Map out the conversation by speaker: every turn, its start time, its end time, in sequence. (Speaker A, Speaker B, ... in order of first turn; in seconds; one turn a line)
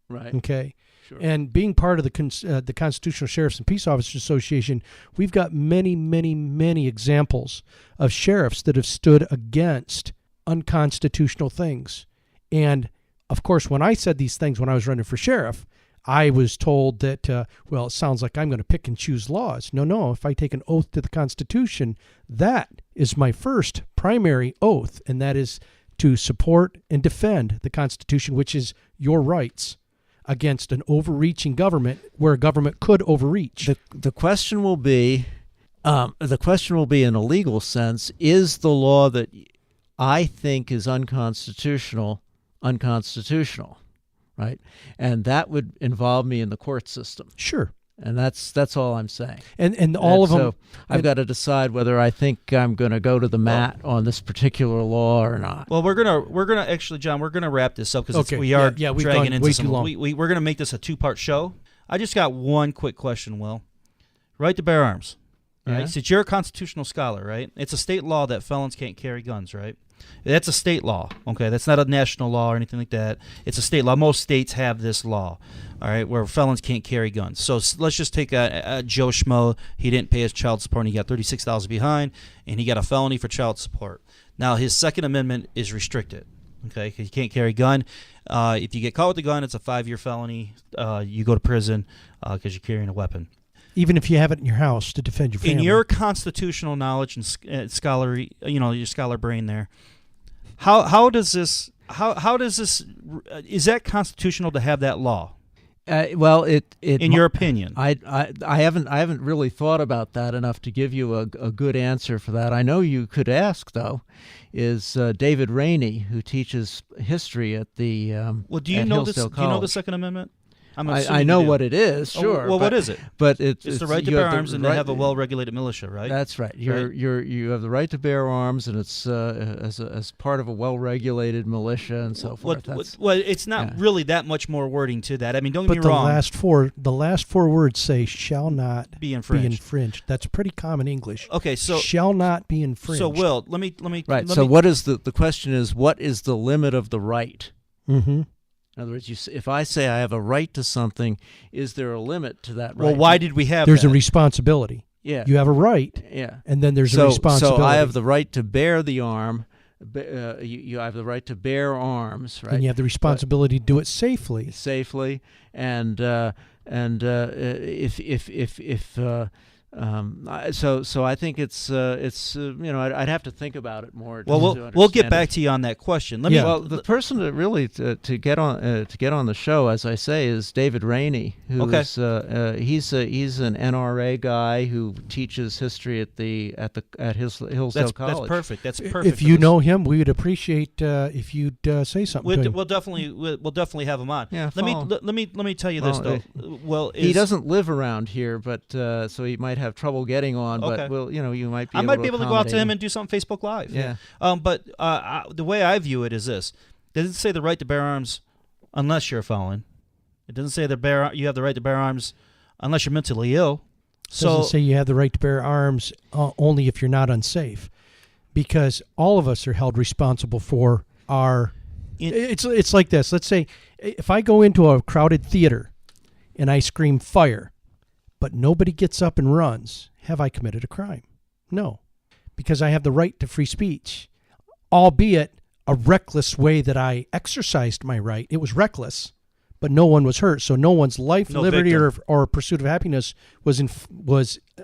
Speaker A: 0.1-0.4
Speaker B: 0.3-33.7
Speaker A: 33.6-35.3
Speaker A: 35.8-43.8
Speaker A: 44.4-47.3
Speaker B: 47.4-47.7
Speaker A: 48.0-49.5
Speaker B: 49.6-51.1
Speaker A: 50.0-55.7
Speaker C: 55.7-63.6
Speaker B: 58.1-59.9
Speaker C: 64.4-93.3
Speaker B: 93.8-95.8
Speaker C: 95.4-99.7
Speaker C: 100.6-105.3
Speaker A: 105.9-119.8
Speaker C: 107.0-107.8
Speaker C: 118.5-126.9
Speaker A: 120.8-125.2
Speaker A: 126.0-133.0
Speaker C: 132.2-136.2
Speaker B: 135.7-143.2
Speaker C: 138.9-139.6
Speaker C: 141.3-141.9
Speaker C: 142.9-144.6
Speaker A: 144.1-147.5
Speaker B: 147.9-148.3
Speaker A: 148.8-153.3
Speaker C: 152.8-154.0
Speaker B: 153.6-157.9
Speaker A: 155.0-155.3
Speaker A: 156.0-163.2
Speaker B: 162.5-164.5
Speaker A: 164.5-175.3
Speaker C: 174.2-176.8
Speaker B: 176.3-176.5
Speaker A: 176.3-188.4
Speaker C: 181.6-181.9
Speaker C: 187.7-189.5
Speaker B: 188.8-192.6
Speaker C: 192.2-197.3
Speaker A: 194.3-194.9
Speaker A: 195.8-196.3
Speaker A: 197.0-202.7
Speaker C: 200.6-200.9
Speaker C: 201.7-208.2
Speaker A: 203.7-204.0
Speaker C: 208.7-209.7
Speaker C: 210.3-214.6
Speaker B: 214.2-217.7
Speaker B: 218.3-221.6
Speaker B: 222.1-225.7
Speaker B: 226.4-227.5
Speaker B: 228.2-231.8
Speaker B: 232.4-234.1
Speaker B: 234.7-244.5
Speaker C: 241.3-241.9